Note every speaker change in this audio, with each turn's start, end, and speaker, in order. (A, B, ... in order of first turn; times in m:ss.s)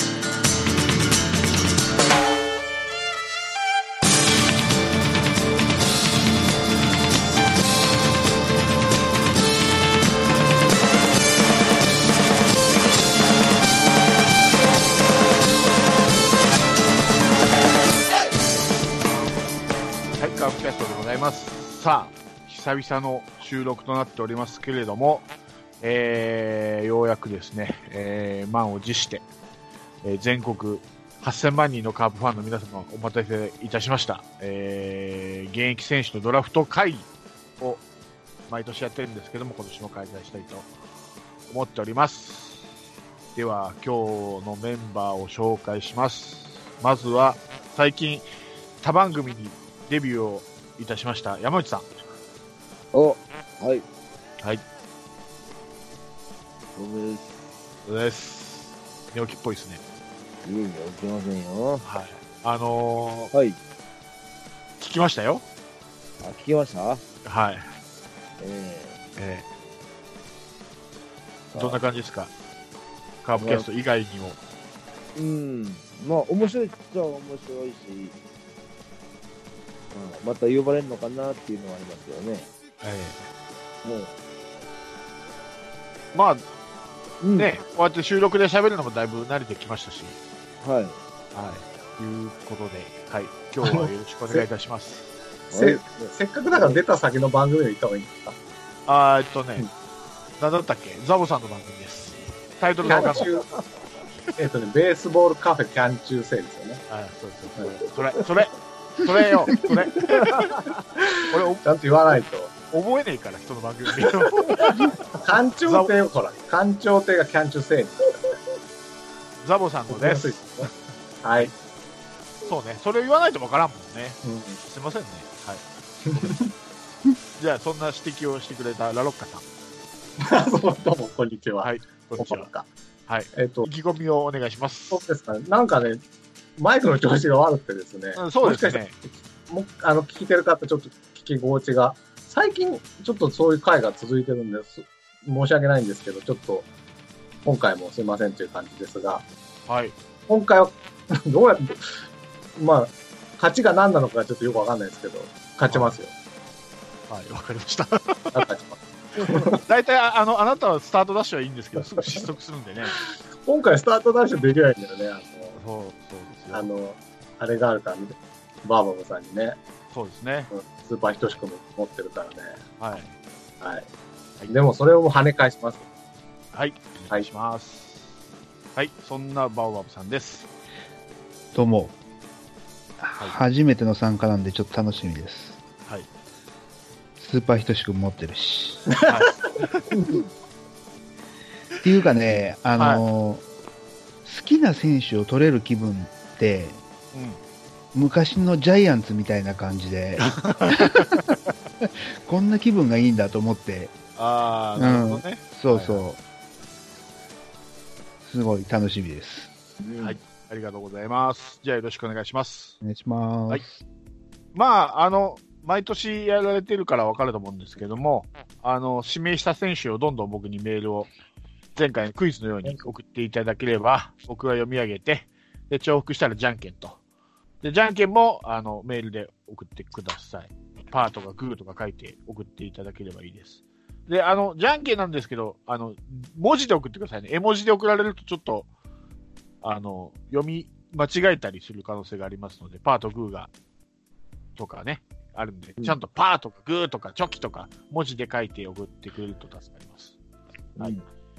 0:20.2-0:25.3 A
0:25.8-0:29.2 A
0:30.0-0:37.1 A
0:38.5-0:40.7 A
0:41.5-0:42.7 A
0:43.3-0:48.3 A
0:48.8-0:51.9 A
0:52.9-0:53.8 B
0:56.8-0:57.3 B
0:57.8-0:59.8 A
1:00.4-1:01.8 B
1:01.8-1:03.3 A
1:03.3-1:03.6 B
1:04.8-1:05.4 A
1:06.2-1:07.0 B
1:07.2-1:07.7 A
1:08.4-1:09.0 B
1:09.2-1:09.4 A
1:11.5-1:11.8 B
1:11.6-1:12.3 A
1:13.2-1:14.4 A
1:13.3-1:13.6 B
1:15.2-1:18.2 B
1:19.9-1:22.5 B
1:22.8-1:23.3 A
1:23.8-1:24.1 B
1:26.1-1:26.4 A
1:27.2-1:27.5 B
1:27.3-1:30.2 A
1:30.6-1:31.0 B
1:31.3-1:35.1 A
1:33.6-1:34.5 C
1:35.5-1:38.4 C
1:35.5-1:36.8 B
1:38.9-1:39.7 A
1:40.4-1:43.3 A
1:42.8-1:43.5 C
1:44.4-1:46.8 C
1:46.9-1:50.7 A
1:47.6-1:48.2 C
1:49.6-1:52.5 C
1:51.3-1:51.7 A
1:52.7-1:55.0 A
1:54.0-1:58.0 C
1:55.6-1:55.9 A
1:59.4-2:00.4 A
1:59.9-2:00.7 C
2:01.2-2:01.5 C
2:02.5-2:05.6 A
2:04.2-2:04.6 C
2:06.1-2:06.5 C
2:06.1-2:06.4 A
2:07.4-2:09.4 A
2:10.2-2:12.7 C
2:11.6-2:12.5 A
2:13.1-2:15.0 A
2:13.3-2:13.7 C
2:14.9-2:16.0 C
2:16.6-2:26.7 C
2:18.2-2:18.9 A
2:27.4-2:29.2 C
2:29.7-2:29.9 A
2:30.3-2:32.0 C
2:32.6-2:36.1 C
2:37.1-2:38.5 A
2:38.3-2:39.6 C
2:39.5-2:43.0 A
2:41.8-2:42.2 C
2:43.5-2:45.6 C
2:45.6-2:46.7 A
2:46.5-2:49.6 C
2:49.9-2:50.5 A
2:50.5-2:52.6 C
2:52.8-2:53.1 A
2:53.6-2:53.9 C
2:54.5-2:55.8 C
2:56.5-2:58.1 A
2:58.8-3:00.5 A
3:01.5-3:02.0 D
3:03.0-3:05.6 D
3:07.2-3:08.9 D
3:08.9-3:09.5 C
3:09.1-3:09.8 A
3:11.8-3:13.4 D
3:12.8-3:13.0 A
3:14.2-3:16.8 D
3:17.1-3:17.4 A
3:17.9-3:21.2 D
3:20.2-3:21.2 A
3:21.8-3:23.9 D
3:24.2-3:26.0 A
3:24.8-3:26.2 D
3:28.2-3:29.5 D
3:29.8-3:30.2 B
3:30.0-3:32.8 A
3:32.8-3:33.7 D
3:34.5-3:41.1 A
3:41.8-3:47.0 A
3:47.6-3:58.7 A
3:59.6-4:03.5 A
4:04.6-4:10.2 A
4:10.8-4:11.0 B